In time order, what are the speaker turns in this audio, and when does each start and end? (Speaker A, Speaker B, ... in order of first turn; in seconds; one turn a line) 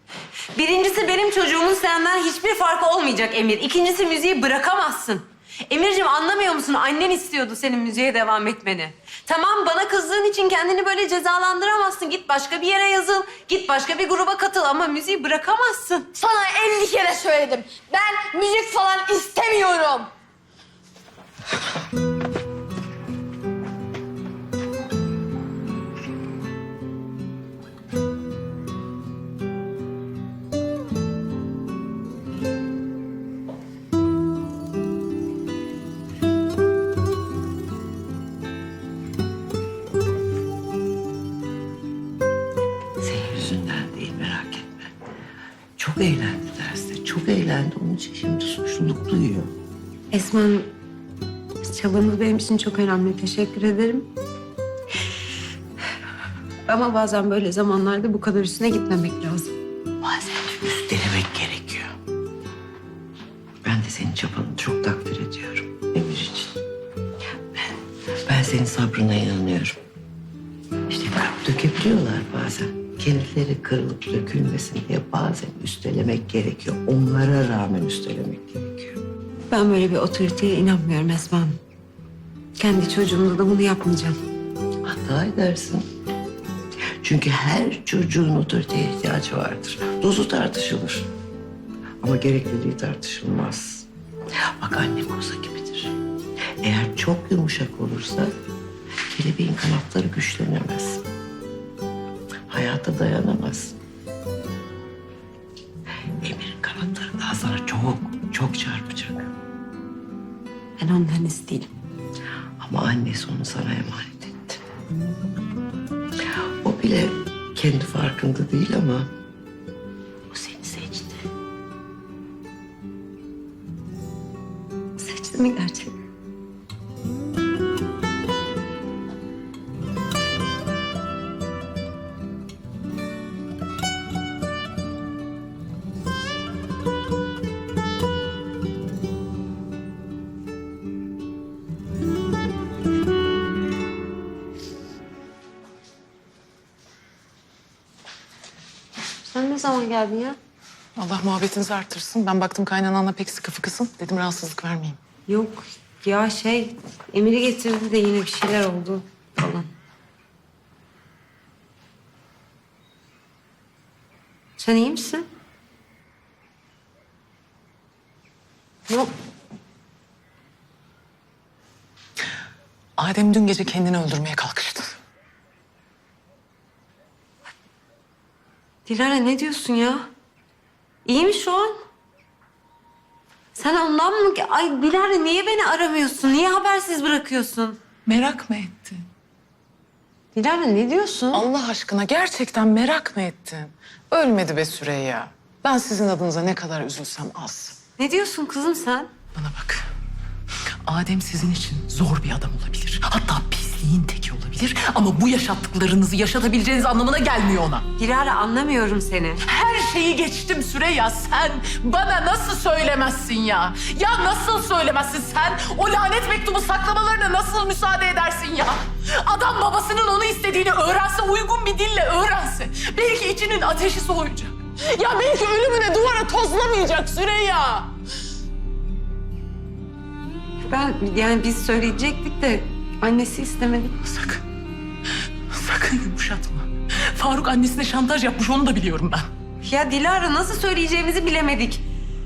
Speaker A: 0.5-16.1
Speaker B: 16.1-20.1
Speaker C: 43.0-44.9
Speaker C: 45.8-49.5
Speaker A: 50.1-50.7
Speaker A: 51.6-54.1
Speaker A: 56.7-59.5
Speaker C: 60.0-61.9
Speaker C: 63.6-66.6
Speaker C: 68.3-69.8
Speaker C: 70.9-79.0
Speaker A: 79.5-81.6
Speaker A: 82.6-84.2
Speaker C: 84.8-85.9
Speaker C: 87.0-91.1
Speaker C: 92.0-93.9
Speaker C: 94.6-96.0
Speaker C: 96.6-98.3
Speaker C: 99.1-101.0
Speaker C: 102.5-103.8
Speaker C: 106.2-109.3
Speaker A: 110.8-111.7
Speaker C: 112.6-114.6
Speaker C: 116.6-119.1
Speaker C: 120.3-121.2
Speaker A: 125.0-126.0
Speaker A: 149.2-150.4
Speaker D: 151.0-155.0
Speaker A: 155.3-159.7
Speaker A: 164.6-165.2
Speaker D: 173.0-174.9
Speaker A: 178.8-180.1
Speaker A: 181.1-181.8
Speaker A: 183.5-187.8
Speaker D: 188.1-189.0
Speaker A: 190.3-191.5
Speaker D: 191.3-197.8
Speaker A: 198.0-199.1
Speaker D: 199.3-199.8
Speaker D: 200.8-207.8
Speaker A: 208.0-209.4
Speaker D: 209.4-227.9
Speaker A: 230.6-233.9
Speaker D: 234.0-234.4
Speaker D: 235.5-239.3
Speaker A: 239.6-241.8